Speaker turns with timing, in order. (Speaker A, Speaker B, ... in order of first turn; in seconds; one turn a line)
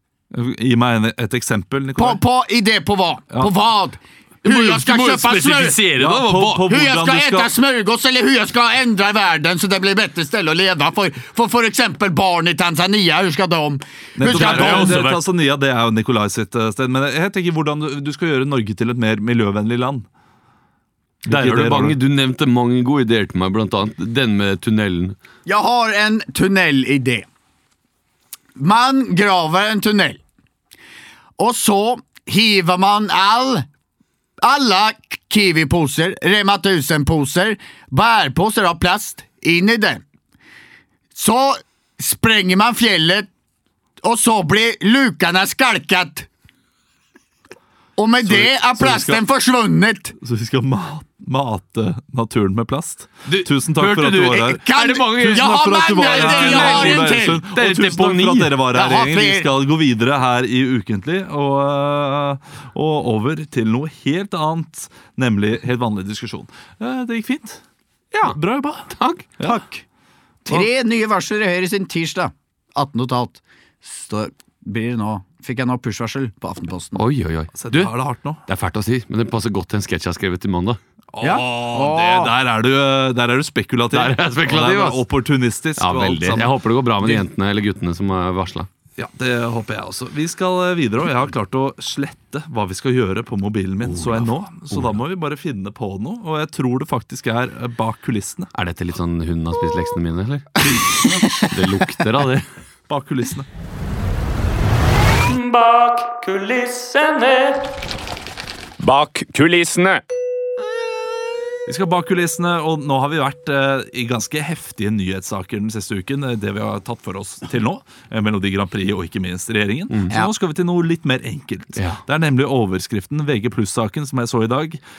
Speaker A: 0.3-2.2
Speaker B: 2.0-5.8
Speaker C: 4.5-6.7
Speaker A: 6.0-7.5
Speaker B: 6.7-15.0
Speaker A: 14.2-20.1
Speaker C: 14.2-15.2
Speaker A: 21.2-22.0
Speaker C: 21.3-25.2
Speaker B: 25.4-27.3
Speaker B: 28.6-30.2
Speaker B: 31.4-33.6
Speaker B: 34.4-40.0
Speaker B: 41.1-43.3
Speaker B: 44.0-46.3
Speaker B: 48.0-50.1
Speaker A: 48.2-49.2
Speaker A: 50.2-54.6
Speaker C: 53.3-58.6
Speaker B: 54.4-57.4
Speaker A: 55.2-67.6
Speaker B: 58.7-59.5
Speaker A: 68.3-69.6
Speaker C: 68.9-69.3
Speaker B: 69.4-69.8
Speaker B: 70.5-77.0
Speaker C: 77.0-77.9
Speaker A: 77.5-78.4
Speaker C: 78.5-80.8
Speaker A: 81.1-87.2
Speaker B: 81.2-82.3
Speaker C: 83.9-85.0
Speaker C: 85.8-88.7
Speaker A: 89.0-98.5
Speaker C: 93.8-95.0
Speaker C: 98.5-102.5
Speaker A: 102.9-103.5
Speaker C: 105.3-107.6
Speaker C: 108.8-110.0
Speaker A: 111.6-124.8
Speaker C: 121.8-122.0